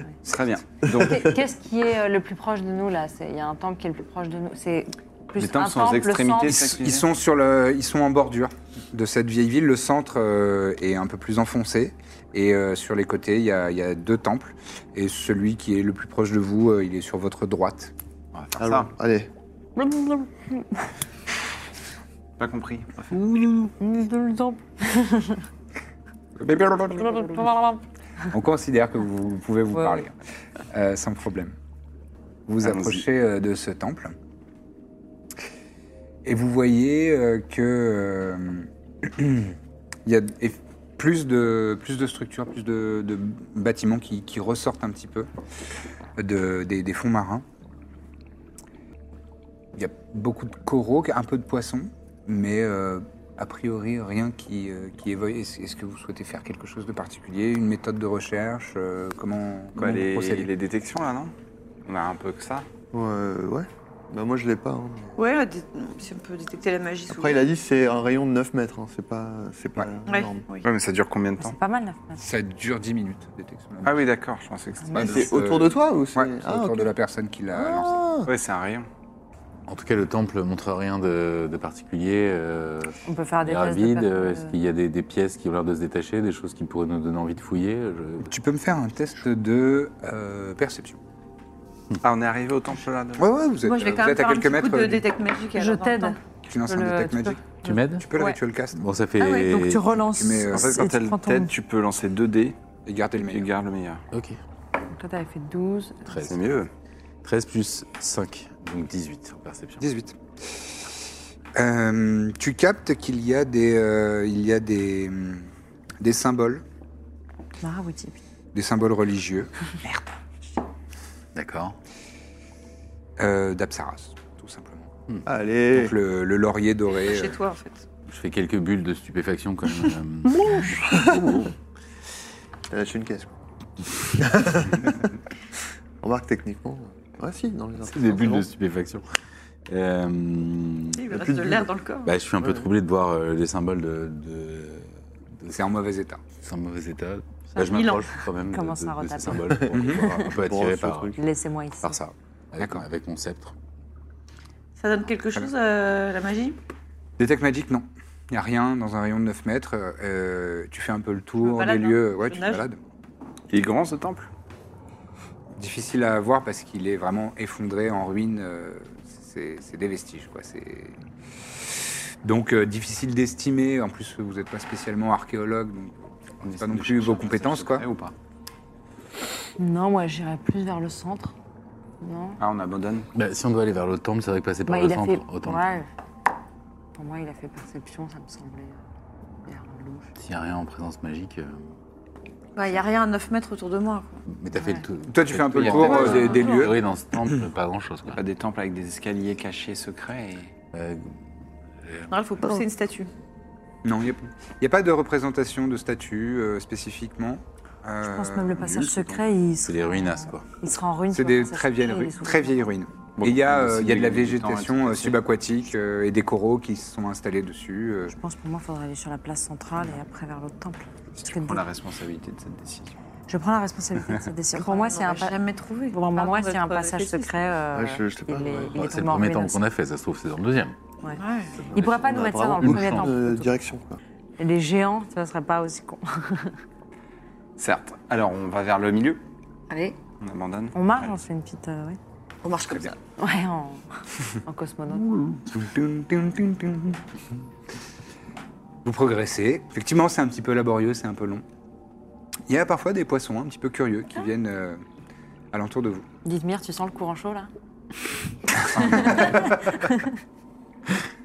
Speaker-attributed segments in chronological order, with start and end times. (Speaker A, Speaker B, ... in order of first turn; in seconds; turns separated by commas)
Speaker A: 0.2-1.3, Speaker B: 0.8-1.2, Speaker C: 0.9-6.5, Speaker A: 5.3-7.0, Speaker D: 6.4-17.9, Speaker A: 18.3-18.9, Speaker B: 18.6-19.3, Speaker C: 19.8-20.8, Speaker A: 22.4-23.2, Speaker C: 23.1-25.4, Speaker A: 26.4-27.5, Speaker C: 26.9-27.8, Speaker D: 28.3-30.1, Speaker D: 30.7-31.5, Speaker D: 32.5-34.1, Speaker A: 32.6-33.0, Speaker D: 36.2-45.3, Speaker D: 46.1-47.4, Speaker D: 49.7-60.5, Speaker A: 59.8-61.3, Speaker A: 61.9-62.6, Speaker B: 62.9-65.2, Speaker E: 65.2-67.4, Speaker B: 67.1-70.5, Speaker E: 70.0-70.7, Speaker A: 70.6-71.6, Speaker C: 71.4-72.2, Speaker D: 72.2-74.0, Speaker A: 73.8-75.6, Speaker C: 74.8-75.1, Speaker D: 75.0-78.0, Speaker B: 75.0-76.9, Speaker B: 77.5-78.3, Speaker A: 78.2-78.9, Speaker F: 79.7-88.3, Speaker C: 83.0-84.5, Speaker D: 88.2-91.0, Speaker A: 92.0-93.2, Speaker D: 93.2-95.0, Speaker E: 93.6-96.2, Speaker C: 95.5-98.3, Speaker D: 96.5-97.5, Speaker F: 97.6-98.1, Speaker D: 98.0-98.8, Speaker F: 98.7-99.9, Speaker E: 99.2-99.8, Speaker C: 99.2-101.5, Speaker D: 100.1-100.8, Speaker A: 100.5-102.5, Speaker D: 102.8-103.5, Speaker A: 103.2-104.0, Speaker F: 104.1-104.4, Speaker C: 104.9-106.2, Speaker F: 106.1-106.4, Speaker A: 106.2-106.7, Speaker F: 107.2-109.8, Speaker D: 109.8-110.2, Speaker D: 111.5-115.5, Speaker D: 116.0-116.6, Speaker C: 117.6-118.2, Speaker D: 118.5-120.1, Speaker F: 121.3-121.8, Speaker D: 123.2-124.9, Speaker B: 125.2-125.9, Speaker D: 125.7-127.4, Speaker E: 126.9-127.8, Speaker F: 128.1-131.5, Speaker B: 130.2-131.4, Speaker B: 132.7-133.3, Speaker B: 134.1-135.1, Speaker B: 136.0-138.5, Speaker F: 137.8-139.1, Speaker F: 139.7-141.0, Speaker E: 140.9-142.1, Speaker B: 141.1-141.7, Speaker F: 142.0-145.6, Speaker B: 142.4-142.7, Speaker D: 145.5-146.2, Speaker F: 146.4-151.2, Speaker E: 147.5-148.2, Speaker C: 148.5-150.3, Speaker D: 149.7-150.1, Speaker B: 150.2-151.2, Speaker C: 151.2-152.0, Speaker F: 151.8-153.5, Speaker D: 152.6-152.8, Speaker E: 154.8-156.6, Speaker D: 157.2-162.8, Speaker E: 161.4-162.6, Speaker A: 163.5-164.3, Speaker D: 165.5-171.0, Speaker D: 172.2-177.9, Speaker A: 176.4-178.1, Speaker C: 179.6-181.3, Speaker C: 182.0-182.4, Speaker A: 182.4-183.1, Speaker F: 183.1-185.8, Speaker C: 184.7-185.9, Speaker C: 186.9-188.8, Speaker C: 189.4-190.1, Speaker F: 190.2-191.6, Speaker E: 192.5-194.2, Speaker F: 194.3-198.2, Speaker C: 194.6-194.8, Speaker D: 195.1-196.8, Speaker E: 195.7-196.7, Speaker A: 198.1-200.5, Speaker F: 200.7-201.1, Speaker F: 201.8-202.1, Speaker E: 202.1-203.1, Speaker D: 203.8-209.0, Speaker C: 208.0-212.6, Speaker F: 209.6-210.4, Speaker D: 211.1-218.1, Speaker A: 213.2-215.2, Speaker C: 218.1-221.6, Speaker A: 221.2-223.0, Speaker C: 223.3-225.3, Speaker E: 224.6-227.3, Speaker C: 225.9-229.6, Speaker B: 227.7-228.7, Speaker F: 228.7-230.8, Speaker E: 231.1-231.6, Speaker B: 231.7-234.0, Speaker C: 231.7-233.5, Speaker F: 231.8-232.0, Speaker F: 232.6-233.1, Speaker C: 234.4-236.5, Speaker A: 237.6-239.2, Speaker E: 239.7-239.9, Speaker A: 240.2-241.1, Speaker C: 240.7-242.0, Speaker E: 242.4-242.9, Speaker C: 243.2-243.8, Speaker C: 244.4-245.0, Speaker D: 244.9-247.0, Speaker D: 248.8-251.4, Speaker D: 252.5-254.8, Speaker D: 255.5-256.1, Speaker C: 256.2-257.5, Speaker D: 258.7-259.4, Speaker C: 258.8-260.1